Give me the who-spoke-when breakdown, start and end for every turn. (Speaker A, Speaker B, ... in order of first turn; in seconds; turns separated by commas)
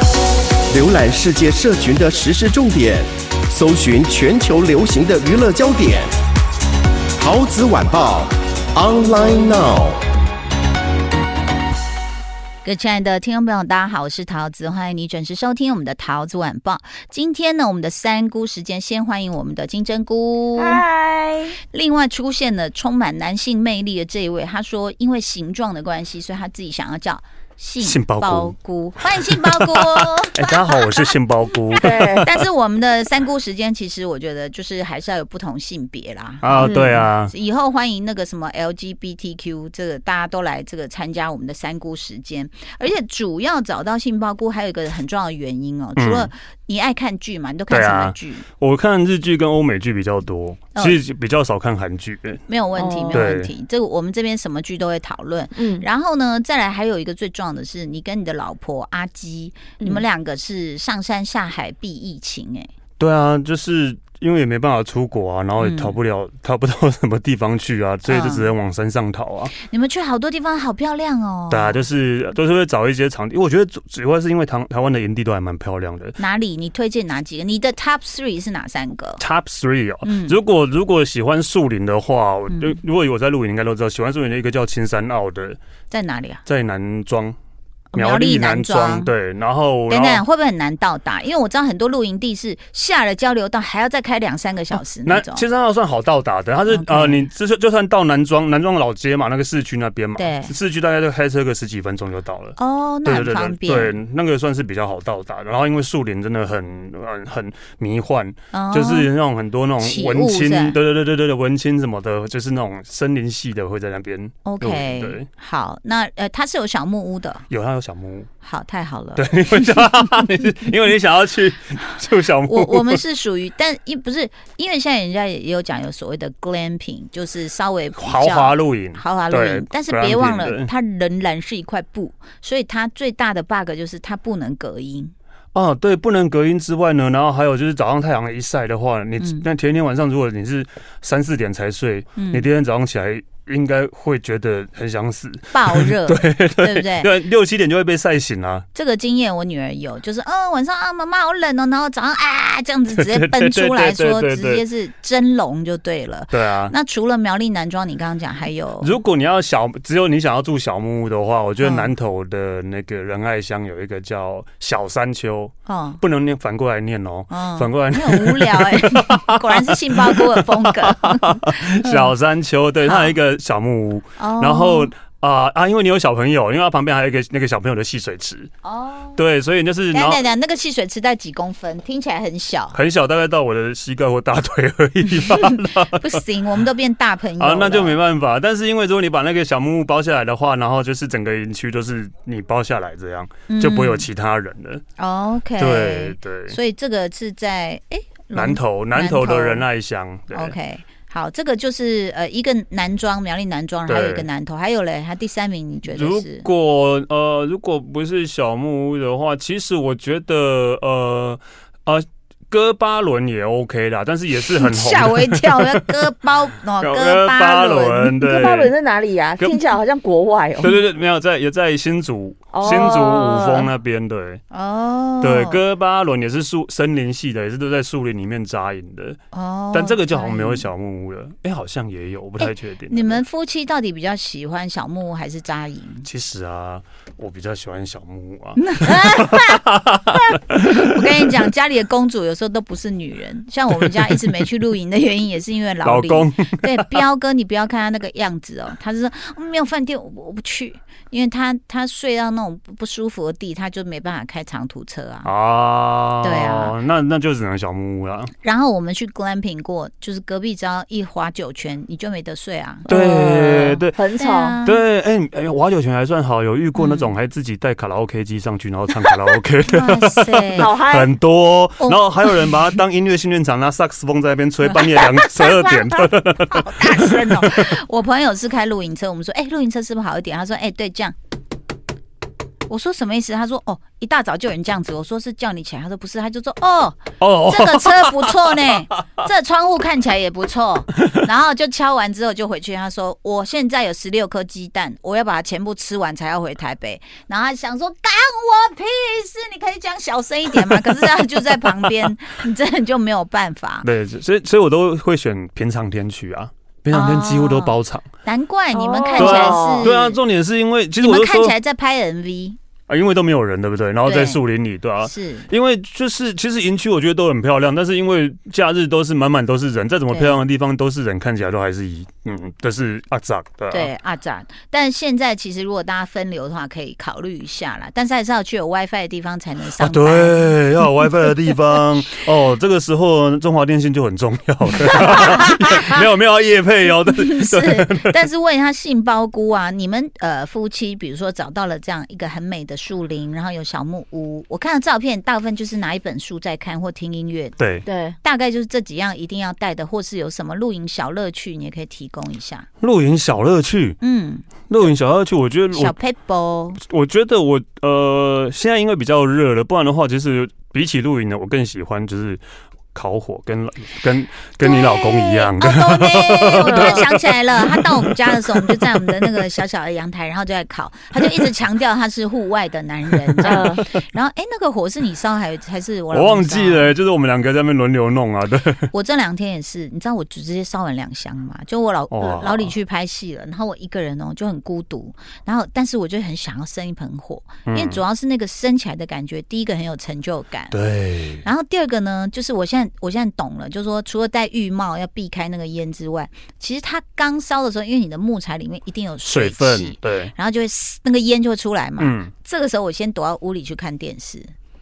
Speaker A: 0.7-6.1, Speaker A: 7.2-10.0, Speaker B: 12.6-20.8, Speaker C: 20.6-21.6, Speaker B: 21.7-31.1, Speaker D: 27.8-28.5, Speaker D: 29.3-32.4, Speaker C: 31.8-32.2, Speaker B: 31.9-48.5, Speaker D: 36.4-37.3, Speaker C: 36.6-37.0, Speaker D: 46.0-46.3, Speaker D: 47.7-52.4, Speaker B: 52.5-62.7, Speaker C: 52.8-53.3, Speaker D: 53.1-53.5, Speaker C: 55.6-55.9, Speaker C: 59.8-60.0, Speaker D: 63.0-69.5, Speaker B: 65.6-66.0, Speaker B: 68.1-68.5, Speaker B: 69.6-71.8, Speaker D: 71.5-76.2, Speaker B: 76.2-79.2, Speaker D: 79.2-85.6, Speaker B: 80.0-80.4, Speaker B: 82.5-82.8, Speaker B: 85.9-86.4, Speaker D: 86.5-87.4, Speaker B: 87.9-89.1, Speaker D: 87.9-90.2, Speaker B: 89.9-95.5, Speaker D: 95.1-115.3, Speaker B: 96.7-97.2, Speaker B: 100.2-100.5, Speaker B: 102.6-103.9, Speaker B: 108.5-109.1, Speaker B: 109.8-110.8, Speaker B: 114.5-117.5, Speaker D: 117.5-118.3, Speaker B: 118.4-119.9, Speaker D: 119.2-123.0, Speaker B: 122.5-135.1, Speaker D: 128.0-130.7, Speaker D: 135.6-148.7, Speaker B: 139.2-139.5, Speaker B: 142.2-142.5, Speaker B: 145.5-147.1, Speaker B: 148.7-159.0, Speaker D: 152.9-154.6, Speaker D: 156.3-156.7, Speaker D: 158.8-178.5, Speaker B: 161.6-161.9, Speaker B: 165.7-166.0, Speaker B: 167.3-172.2, Speaker B: 172.8-173.2, Speaker B: 174.2-174.9, Speaker B: 178.6-179.2, Speaker D: 179.2-180.2, Speaker B: 179.9-182.8, Speaker D: 182.7-186.1, Speaker B: 185.3-188.0, Speaker D: 187.4-194.8, Speaker B: 193.5-194.1, Speaker B: 195.0-199.7, Speaker D: 195.6-196.6, Speaker D: 198.3-200.6, Speaker B: 200.3-206.5, Speaker D: 203.9-204.3, Speaker D: 205.9-215.8, Speaker B: 214.5-218.2, Speaker D: 216.8-218.7, Speaker C: 218.2-220.7, Speaker D: 219.4-219.7, Speaker D: 220.6-224.4, Speaker C: 222.5-223.7, Speaker B: 224.5-225.6, Speaker D: 225.2-229.2, Speaker B: 229.3-230.7, Speaker D: 229.7-233.2, Speaker B: 232.4-236.1, Speaker D: 236.0-241.3, Speaker B: 238.6-239.6, Speaker B: 240.3-255.3, Speaker D: 243.7-244.2, Speaker D: 245.8-247.0, Speaker D: 255.2-258.3, Speaker B: 256.2-256.8, Speaker B: 258.4-262.9, Speaker C: 262.9-264.6, Speaker D: 262.9-264.0, Speaker B: 264.2-264.8, Speaker D: 264.6-277.6, Speaker B: 266.8-267.1, Speaker B: 269.7-270.7, Speaker C: 270.6-271.1, Speaker B: 271.8-272.5, Speaker B: 274.7-281.1, Speaker B: 282.7-303.9, Speaker D: 287.2-288.9, Speaker D: 303.8-308.1, Speaker B: 306.9-310.0, Speaker C: 308.7-310.2, Speaker D: 309.2-311.5, Speaker B: 311.0-312.6, Speaker D: 312.9-323.9, Speaker B: 314.0-314.4, Speaker B: 315.0-315.5, Speaker B: 320.1-320.4, Speaker B: 323.7-330.6, Speaker D: 329.8-338.2, Speaker B: 335.0-335.5, Speaker B: 337.1-347.6, Speaker D: 347.6-347.8, Speaker C: 347.9-348.2, Speaker B: 348.2-352.7, Speaker D: 352.8-354.0, Speaker B: 354.0-354.9, Speaker D: 354.7-355.9, Speaker B: 355.7-356.8, Speaker D: 356.8-362.4, Speaker D: 362.9-369.1, Speaker B: 364.6-376.9, Speaker C: 366.7-367.0, Speaker D: 371.2-371.4, Speaker D: 373.3-373.8, Speaker C: 373.4-373.8, Speaker D: 376.1-378.9, Speaker B: 378.9-390.8, Speaker D: 382.1-382.7, Speaker D: 387.7-388.0, Speaker D: 390.7-391.4, Speaker B: 391.4-404.5, Speaker D: 399.2-400.3, Speaker D: 402.0-402.3